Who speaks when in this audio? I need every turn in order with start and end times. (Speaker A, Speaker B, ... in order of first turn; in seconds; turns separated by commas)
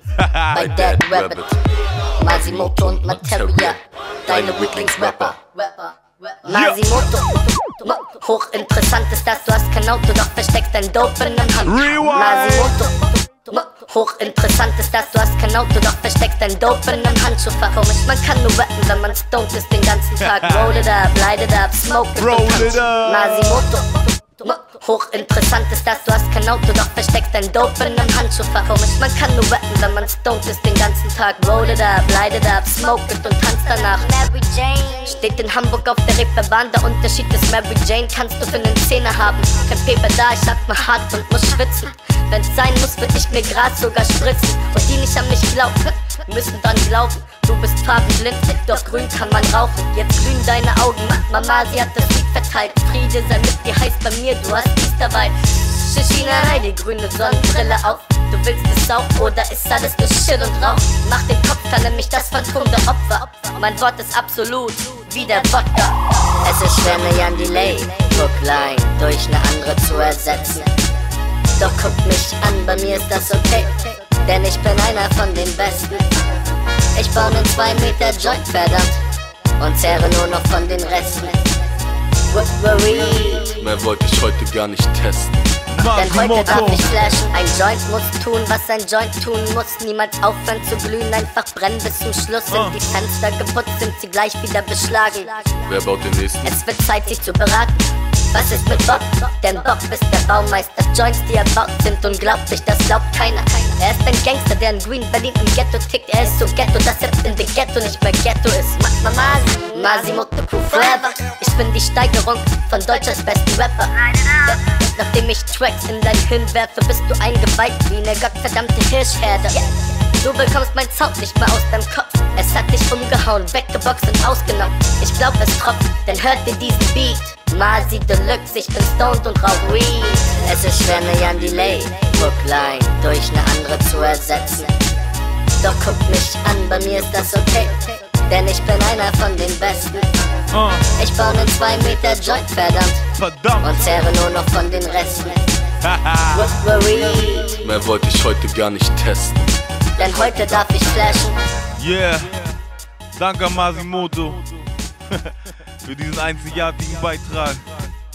Speaker A: 0.2-0.6, Speaker B: 0.5-1.6, Speaker C: 0.5-1.5, Speaker B: 2.2-70.7, Speaker C: 2.2-5.3, Speaker A: 6.5-6.9, Speaker A: 11.7-12.7, Speaker A: 20.2-20.8, Speaker A: 22.1-23.5, Speaker C: 67.1-67.8, Speaker B: 71.5-76.1, Speaker C: 72.7-73.2, Speaker B: 76.9-79.0, Speaker C: 77.4-77.8, Speaker B: 79.6-81.5, Speaker B: 82.3-83.7, Speaker C: 83.6-85.5, Speaker A: 85.7-86.9, Speaker B: 85.9-95.6, Speaker A: 92.5-92.8, Speaker C: 95.7-96.5, Speaker B: 96.4-134.7, Speaker C: 130.9-131.8, Speaker B: 135.6-140.1, Speaker A: 140.5-140.8, Speaker B: 140.9-143.0, Speaker A: 143.1-143.9, Speaker B: 143.6-145.4, Speaker A: 145.8-146.6, Speaker B: 146.3-147.8, Speaker C: 147.6-150.7, Speaker B: 150.0-151.3, Speaker A: 151.8-152.6, Speaker A: 153.2-154.4, Speaker A: 155.1-157.9